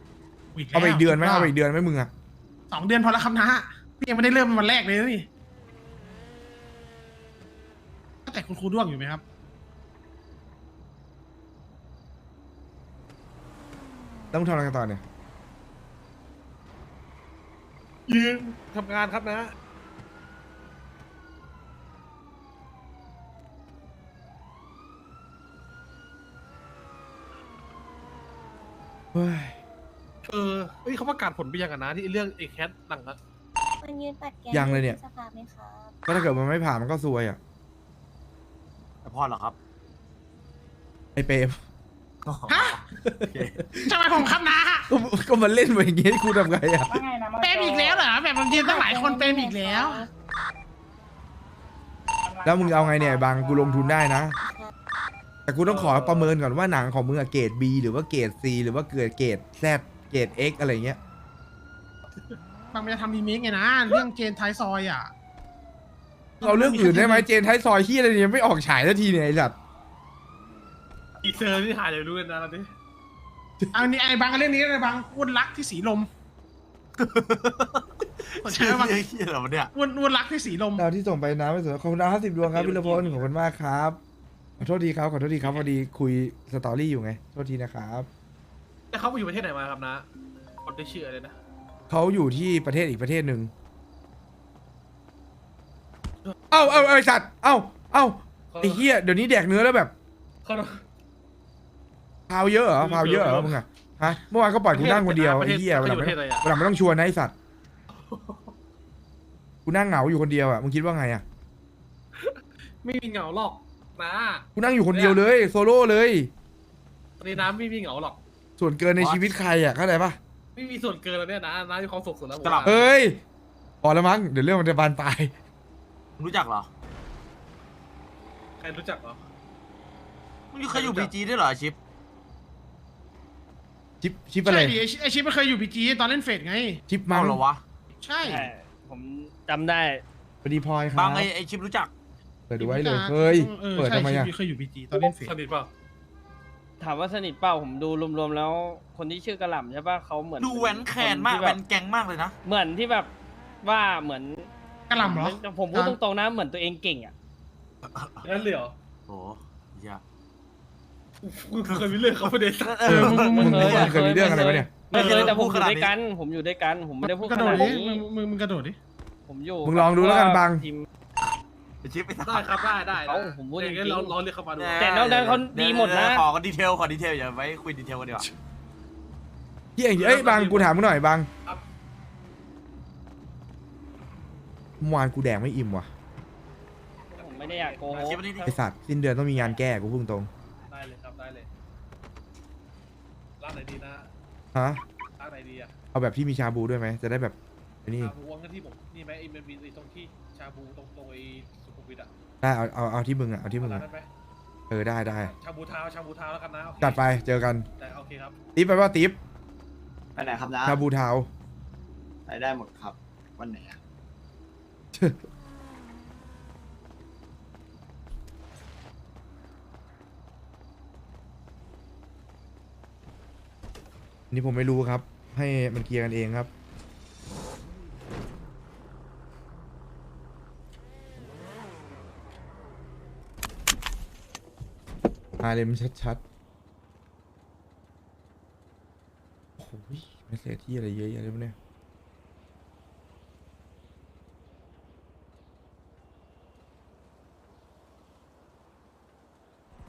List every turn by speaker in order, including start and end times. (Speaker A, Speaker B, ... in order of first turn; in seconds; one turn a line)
Speaker A: 0.5-1.6
Speaker B: 0.7-2.1
Speaker A: 2.7-5.3
Speaker A: 8.3-9.2
Speaker B: 14.3-15.0
Speaker C: 18.1-19.5
Speaker B: 29.1-29.6
Speaker C: 30.3-33.2
Speaker D: 33.8-35.9
Speaker B: 34.5-35.0
Speaker B: 36.1-37.4
Speaker E: 39.0-39.6
Speaker B: 41.1-41.6
Speaker E: 42.2-43.6
Speaker A: 42.5-42.8
Speaker B: 43.0-44.0
Speaker A: 43.8-44.9
Speaker B: 44.9-47.0
Speaker F: 46.9-47.8
Speaker A: 47.4-50.1
Speaker D: 48.5-50.1
Speaker F: 48.8-49.9
Speaker F: 52.2-53.0
Speaker B: 52.5-54.4
Speaker D: 54.4-54.7
Speaker B: 55.5-61.0
Speaker C: 55.6-56.4
Speaker A: 62.7-65.1
Speaker B: 66.4-69.5
Speaker A: 66.4-67.3
Speaker C: 71.2-72.7
Speaker A: 73.7-76.1
Speaker E: 77.0-79.7
Speaker A: 78.4-79.0
Speaker A: 79.8-80.8
Speaker B: 80.8-84.0
Speaker C: 82.5-83.3
Speaker B: 84.6-88.1
Speaker C: 85.4-85.7
Speaker C: 88.9-90.1
Speaker C: 90.7-91.4
Speaker B: 91.9-93.5
Speaker B: 96.5-99.9
Speaker C: 98.5-98.8
Speaker C: 100.5-100.8
Speaker B: 102.3-107.3
Speaker C: 102.8-103.6
Speaker C: 104.7-106.5
Speaker C: 107.9-108.5
Speaker B: 109.7-111.2
Speaker C: 112.2-115.2
Speaker B: 114.6-116.3
Speaker C: 117.2-118.2
Speaker B: 118.6-120.2
Speaker C: 120.5-122.9
Speaker E: 122.4-122.8
Speaker B: 122.7-123.2
Speaker B: 123.8-125.3
Speaker E: 126.2-126.7
Speaker C: 128.6-129.2
Speaker E: 130.5-131.8
Speaker C: 130.7-131.2
Speaker B: 134.0-134.8
Speaker A: 134.4-136.8
Speaker B: 136.9-137.4
Speaker E: 137.1-137.6
Speaker A: 138.0-138.5
Speaker G: 138.2-140.0
Speaker B: 140.4-141.3
Speaker E: 140.9-141.9
Speaker B: 142.5-144.3
Speaker A: 142.6-145.4
Speaker C: 145.2-145.7
Speaker G: 146.8-151.6
Speaker E: 150.4-152.4
Speaker G: 152.4-153.1
Speaker G: 153.6-157.1
Speaker A: 154.9-156.0
Speaker E: 157.8-158.3
Speaker C: 158.2-158.7
Speaker E: 159.1-160.0
Speaker C: 161.2-163.7
Speaker E: 161.7-162.0
Speaker E: 162.7-164.4
Speaker B: 162.9-164.7
Speaker G: 163.0-168.0
Speaker A: 163.1-163.9
Speaker E: 164.9-165.9
Speaker C: 164.9-165.3
Speaker A: 167.0-168.8
Speaker G: 169.3-170.9
Speaker B: 169.6-170.7
Speaker E: 171.8-172.7
Speaker C: 172.2-174.8
Speaker G: 172.9-174.2
Speaker E: 174.6-178.3
Speaker G: 174.8-176.3
Speaker B: 179.8-181.3
Speaker C: 180.0-180.8
Speaker B: 184.8-185.9
Speaker C: 187.1-188.1
Speaker G: 187.1-188.6
Speaker E: 188.0-188.5
Speaker B: 188.4-190.3
Speaker C: 190.7-191.5
Speaker C: 193.4-194.1
Speaker B: 194.5-194.8
Speaker C: 195.2-195.7
Speaker B: 195.9-198.1
Speaker C: 198.0-202.1
Speaker B: 202.4-203.8
Speaker C: 203.6-204.1
Speaker B: 204.7-205.3
Speaker C: 205.2-207.0
Speaker B: 206.8-207.7
Speaker C: 207.8-208.4
Speaker B: 208.6-209.2
Speaker H: 210.2-210.8
Speaker B: 210.6-211.3
Speaker H: 212.3-213.8
Speaker B: 215.0-215.2
Speaker B: 224.3-226.5
Speaker B: 235.4-236.2
Speaker B: 239.6-241.6